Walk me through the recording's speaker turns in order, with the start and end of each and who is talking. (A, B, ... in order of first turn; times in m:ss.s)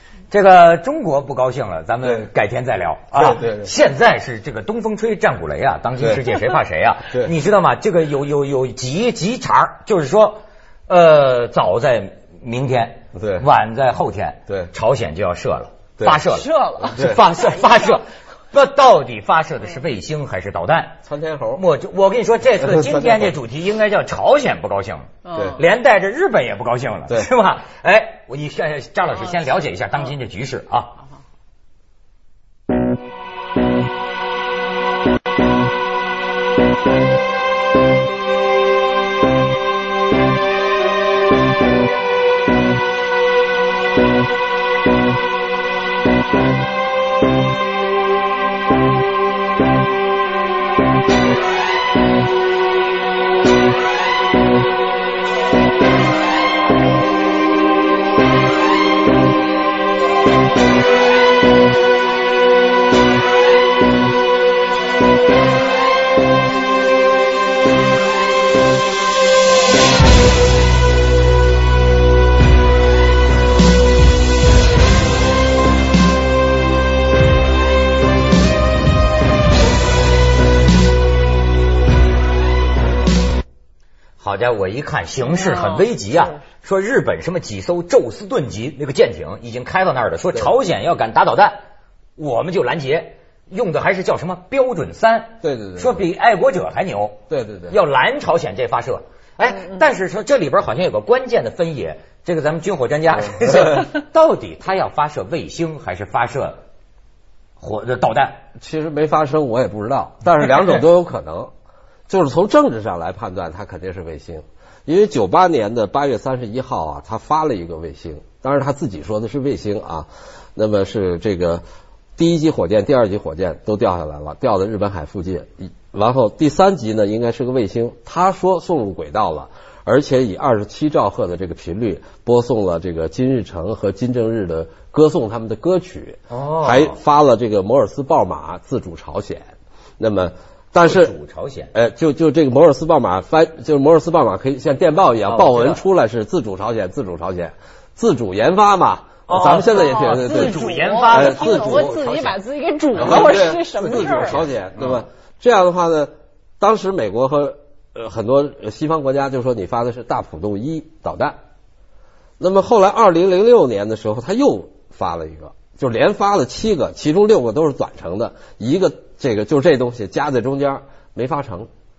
0:00.3-0:21.0 A
0:03.1-0:03.7 B
0:13.1-0:13.4 B
0:16.3-0:17.4 C
0:16.9-0:17.2 B
0:21.1-0:21.6 B
0:21.6-0:31.0 A
0:22.6-0:23.3 B
0:25.2-0:25.6 C
1:24.2-1:31.6 A
1:25.2-1:26.4 C
1:32.2-1:37.2 A
1:35.4-1:36.0 B
1:37.3-1:37.8 B
1:37.7-1:46.6 A
1:47.6-1:48.4 A
1:48.6-1:51.5 B
1:52.1-2:01.6 B
2:02.2-2:21.1 B
2:16.3-2:17.0 A
2:20.8-2:21.7 A
2:21.7-2:31.9 B
2:25.2-2:25.8 A
2:29.3-2:32.4 A
2:29.7-2:34.4 C
2:32.9-2:35.0 A
2:33.0-2:41.4 B
2:42.4-2:51.7 B